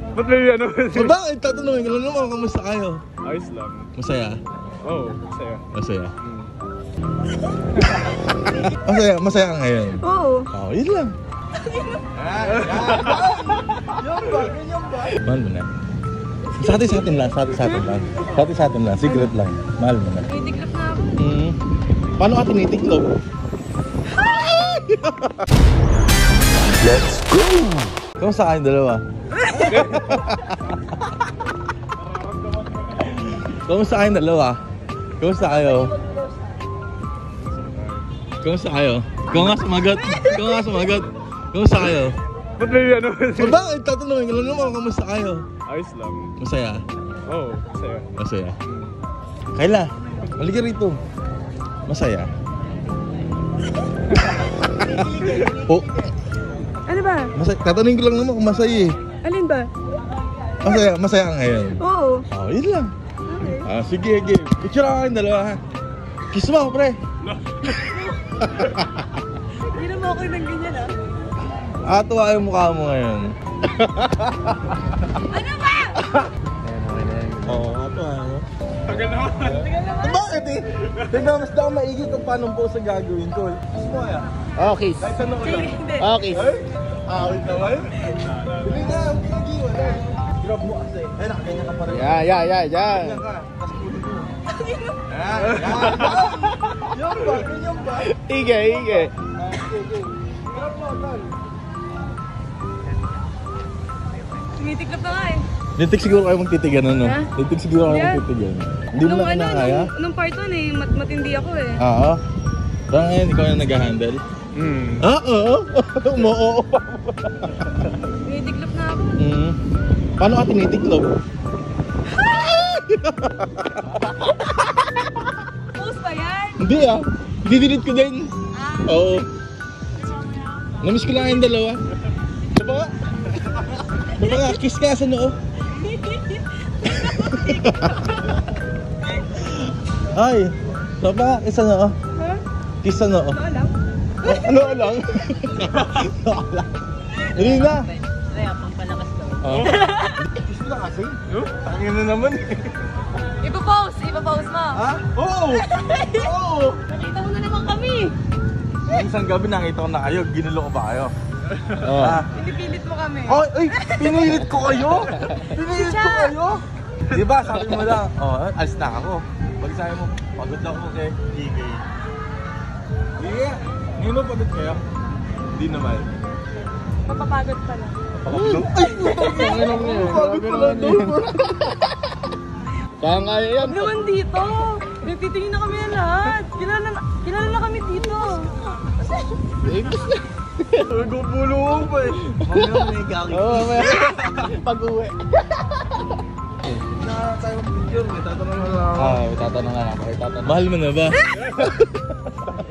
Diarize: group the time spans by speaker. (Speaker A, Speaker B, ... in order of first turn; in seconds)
Speaker A: 0.1-1.1, 3.2-3.9, 4.8-5.6, 6.2-6.5, 12.6-13.2, 29.7-30.0, 37.4-38.1, 42.6-43.6, 45.7-46.3, 47.2-48.1, 48.7-48.9, 79.0-79.4, 95.6-96.2, 114.5-115.0
Speaker B: 0.9-3.0, 4.0-4.4, 5.7-6.1, 8.7-11.1, 12.1-15.7, 16.6-20.3, 21.2-21.6, 22.2-23.1, 24.1-25.5, 27.1-30.6, 33.1-34.6, 35.2-36.0, 38.4-42.2, 43.4-45.5, 46.4-46.8, 48.2-48.6, 49.6-51.0, 51.9-52.3, 54.8-56.0, 57.4-59.0, 60.6-62.9, 63.6-65.6, 66.3-67.0, 68.4-68.9, 71.8-74.7, 77.5-78.5, 79.3-84.3, 85.0-92.3, 92.9-94.3, 95.1-98.1, 98.7-101.3, 105.8-109.9, 111.8-112.2, 112.9-114.2, 115.0-117.9, 119.2-119.6, 120.2-121.1, 122.1-124.0, 126.6-129.3, 130.8-131.8, 132.5-132.9, 134.2-135.3, 136.8-138.2, 139.3-141.9, 142.8-143.4, 144.2-147.9, 149.4-152.8, 154.7-156.8, 158.8-161.1, 161.8-162.3, 163.3-171.8, 173.2-174.8, 175.5-176.2, 178.2-181.5, 190.8-194.4, 196.8-199.3, 200.3-201.7
Speaker C: 10.0-10.5, 11.6-12.0, 19.1-19.3, 20.2-21.2, 56.9-57.3, 59.2-59.7, 61.8-62.2, 63.3-63.7, 69.7-71.0, 75.3-76.0, 79.5-80.2, 85.4-86.1, 94.5-95.0, 104.5-105.4, 107.8-108.2, 109.0-111.8, 118.2-119.2, 125.8-126.8, 128.5-129.0, 134.2-134.5, 135.8-136.4, 137.2-137.7, 142.2-142.4, 143.3-143.7, 149.6-150.2, 153.4-154.8, 155.6-156.3, 156.9-158.2, 162.3-164.4, 165.7-166.4, 177.1-178.0, 183.6-188.6
Speaker D: 76.6-77.7, 84.6-85.0, 86.0-86.6, 91.9-93.2, 98.0-99.1, 147.3-149.6, 161.8-162.2, 178.2-182.0, 183.0-183.9, 189.6-190.9, 192.5-196.2, 198.6-200.6